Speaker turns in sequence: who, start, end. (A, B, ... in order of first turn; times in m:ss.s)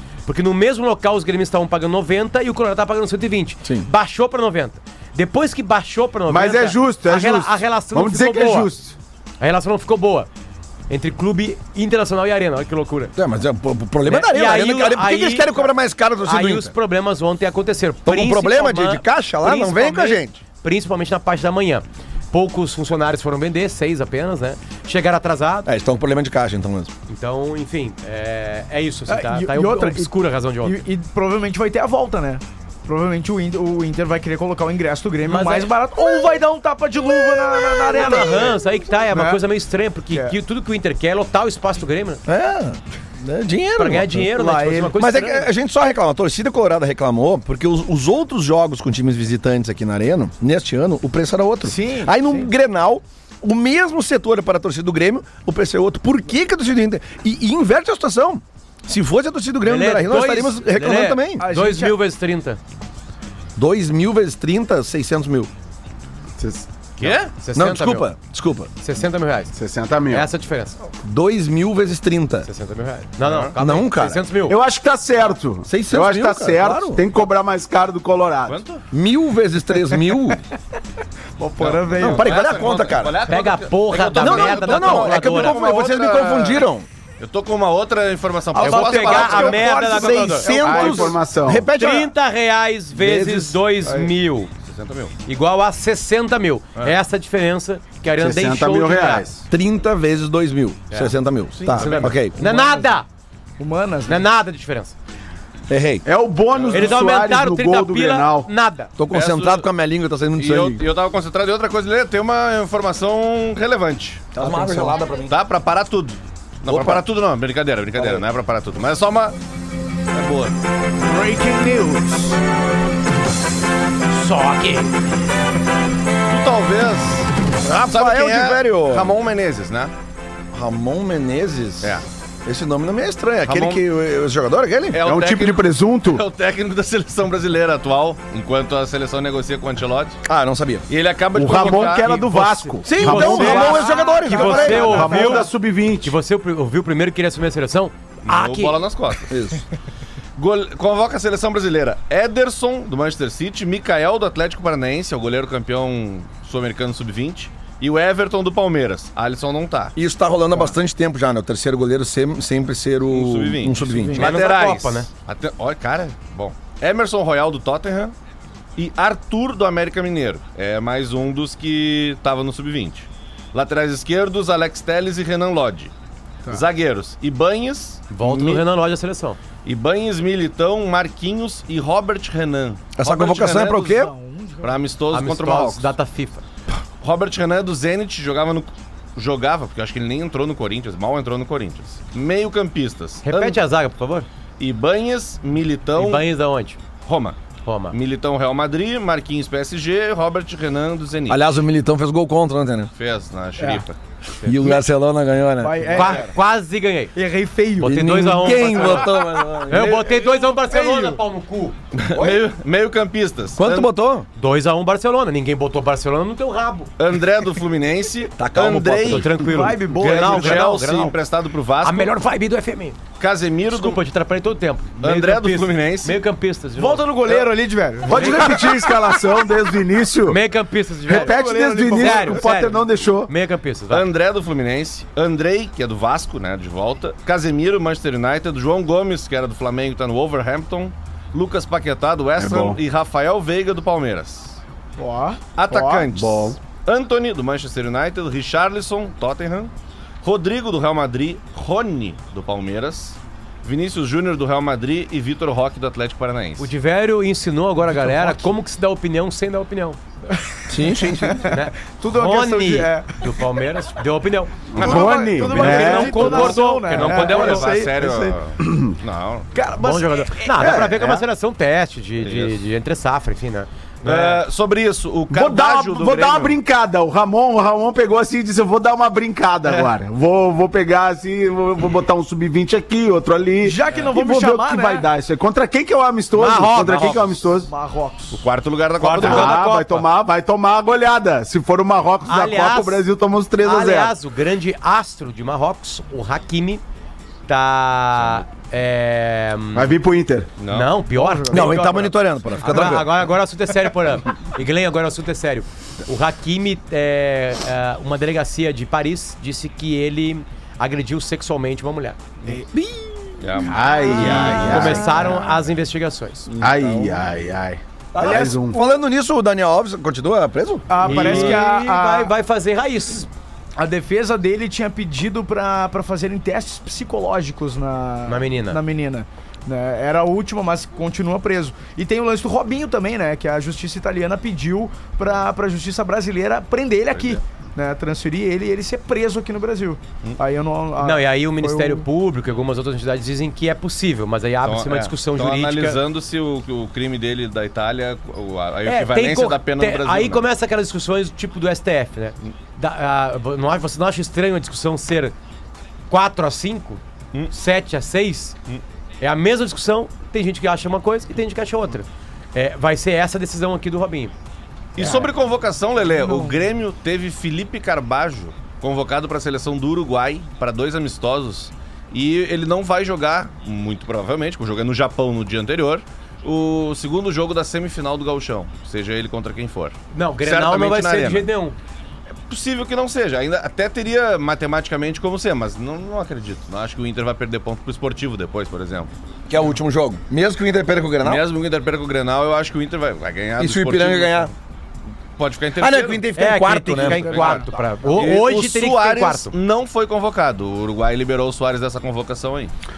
0:00.2-0:08.7 A
0:06.3-0:08.9 B
0:09.4-0:10.3 A
0:10.9-0:13.1 A
0:13.2-0:16.7 C
0:14.0-0:15.7 A
0:16.2-0:25.7 A
0:18.0-0:20.4 C
0:25.6-0:26.9 C
0:27.1-0:30.8 A
0:29.1-0:39.4 D
0:35.2-0:35.7 A
0:37.9-0:42.2 A
0:42.2-0:44.3 C
0:43.8-0:45.5 A
0:44.3-0:44.9 D
0:44.9-1:01.4 C
0:51.6-0:52.5 D
0:59.6-1:02.6 A
1:01.4-1:02.0 D
1:03.6-1:05.5 C
1:06.4-1:06.6 B
1:07.0-1:08.1 A
1:07.0-1:07.3 E
1:07.5-1:08.7 C
1:08.8-1:09.5 A
1:09.5-1:10.3 B
1:10.1-1:10.8 A
1:11.0-1:12.5 C
1:12.4-1:14.6 A
1:13.2-1:13.5 E
1:13.6-1:14.2 C
1:14.5-1:18.6 B
1:15.6-1:17.0 C
1:18.5-1:18.8 E
1:18.9-1:20.4 C
1:21.4-1:22.3 D
1:21.6-1:26.6 E
1:22.0-1:23.2 C
1:23.2-1:25.6 A
1:24.2-1:26.9 C
1:27.2-1:29.7 E
1:28.5-1:30.9 D
1:28.6-1:31.0 A
1:29.8-1:32.1 C
1:30.5-1:31.7 B
1:31.8-1:34.5 A
1:32.9-1:33.6 C
1:33.8-1:34.1 D
1:34.6-1:35.1 E
1:35.2-1:39.3 A
1:38.2-1:39.4 B
1:39.5-1:42.4 C
1:41.6-1:42.1 E
1:41.7-1:43.0 A
1:42.4-1:42.9 D
1:43.6-1:44.2 D
1:44.1-1:44.9 A
1:45.7-1:46.0 C
1:46.0-1:48.5 B
1:46.5-1:47.0 E
1:46.7-1:48.9 A
1:49.0-1:50.8 C
1:49.1-1:49.7 E
1:50.3-1:54.3 E
1:54.3-1:55.4 C
1:54.5-1:54.9 A
1:55.3-1:59.4 E
1:56.6-1:57.0 C
1:58.0-1:58.2 C
2:00.1-2:00.5 E
2:01.0-2:02.4 D
2:04.1-2:04.9 A
2:06.3-2:09.9 E
2:07.6-2:09.1 C
2:10.5-2:15.0 C
2:13.4-2:13.8 E
2:14.9-2:20.2 E
2:15.0-2:16.2 B
2:20.2-2:20.8 C
2:20.9-2:22.4 E
2:21.3-2:26.1 B
2:22.0-2:25.5 A
2:22.8-2:25.0 C
2:23.2-2:25.5 D
2:26.0-2:28.8 A
2:28.2-2:29.3 E
2:29.3-2:29.6 C
2:30.4-2:39.9 E
2:40.0-2:44.5 C
2:43.1-2:48.1 E
2:44.1-2:45.1 A
2:48.8-2:55.9 E
2:56.5-2:58.6 E
2:58.1-2:59.4 A
2:59.6-3:03.8 E
3:02.9-3:04.1 C
3:03.8-3:04.7 D
3:04.6-3:05.9 E
3:05.1-3:06.4 A
3:07.0-3:13.6 E
3:13.2-3:14.3 A
3:14.6-3:16.2 E
3:15.9-3:16.8 A
3:17.0-3:17.4 E
3:17.6-3:18.0 A
3:17.9-3:21.5 E
3:21.3-3:22.9 C
3:23.0-3:24.0 E
3:23.6-3:23.8 D
3:24.4-3:24.7 A
3:24.4-3:26.0 C
3:25.6-3:26.3 D
3:25.9-3:27.1 A
3:27.1-3:29.5 D
3:27.8-3:29.1 A
3:27.8-3:29.9 C
3:29.7-3:31.7 A
3:29.7-3:30.9 E
3:30.9-3:31.1 D
3:32.0-3:33.9 E
3:32.1-3:32.4 C
3:33.6-3:34.3 C
3:34.4-3:36.9 A
3:37.0-3:39.3 E
3:38.4-3:39.3 C
3:39.0-3:41.2 A
3:39.4-3:40.7 D
3:40.0-3:42.1 E
3:41.8-3:43.0 A
3:43.2-3:44.0 E
3:43.7-3:47.1 A
3:45.0-3:46.2 E
3:46.8-3:49.0 D
3:48.1-3:50.4 B
3:50.2-3:54.0 A
3:51.0-3:53.3 B
3:51.1-3:52.6 D
3:53.9-4:04.6 E
4:02.4-4:02.8 B
4:05.0-4:06.0 D
4:05.6-4:09.7 E
4:06.0-4:06.6 B
4:10.2-4:16.7 E
4:16.6-4:20.0 A
4:17.9-4:18.4 D
4:20.3-4:23.2 D
4:20.7-4:21.5 C
4:21.5-4:27.6 A
4:24.7-4:25.0 E
4:24.8-4:26.6 B
4:24.8-4:28.4 D
4:26.2-4:29.5 E
4:28.6-4:28.9 B
4:29.5-4:30.7 D
4:29.8-4:34.4 A
4:30.6-4:31.2 B
4:32.2-4:32.6 E
4:34.0-4:36.6 E
4:35.3-4:47.7 B
4:39.6-4:39.9 E
4:43.6-4:45.1 D
4:46.3-4:47.2 A
4:46.8-4:47.4 E
4:47.6-4:48.5 D
4:48.3-4:49.6 E
4:49.0-4:50.1 A
4:49.2-4:54.1 B
4:52.2-4:53.0 A
4:53.6-4:56.8 A
4:57.5-4:59.9 A
4:59.7-5:00.5 B
5:00.6-5:00.9 E
5:00.7-5:02.0 A
5:01.1-5:02.2 D
5:01.5-5:03.3 C
5:02.6-5:12.2 A
5:13.4-5:14.6 E
5:13.7-5:15.4 B
5:14.1-5:16.5 A
5:14.2-5:15.3 D
5:16.6-5:17.2 C
5:16.6-5:18.8 B
5:18.1-5:21.4 C
5:20.9-5:22.3 D
5:21.0-5:23.3 A
5:21.1-5:21.5 E
5:23.8-5:42.0 D
5:28.2-5:28.8 A
5:37.1-5:37.4 E
5:41.0-5:46.0 A
5:44.6-5:50.4 E
5:48.8-5:55.3 A
5:56.1-5:58.5 A
5:59.2-6:04.3 A
6:05.0-6:21.5 E
6:05.0-6:05.3 D
6:06.1-6:06.6 D
6:20.1-6:21.8 A
6:22.5-6:29.1 E
6:29.5-6:31.4 C
6:31.2-6:34.5 E
6:33.6-6:34.5 C
6:35.4-6:36.2 E
6:35.8-6:37.5 C
6:36.4-6:39.5 A
6:37.2-6:42.7 E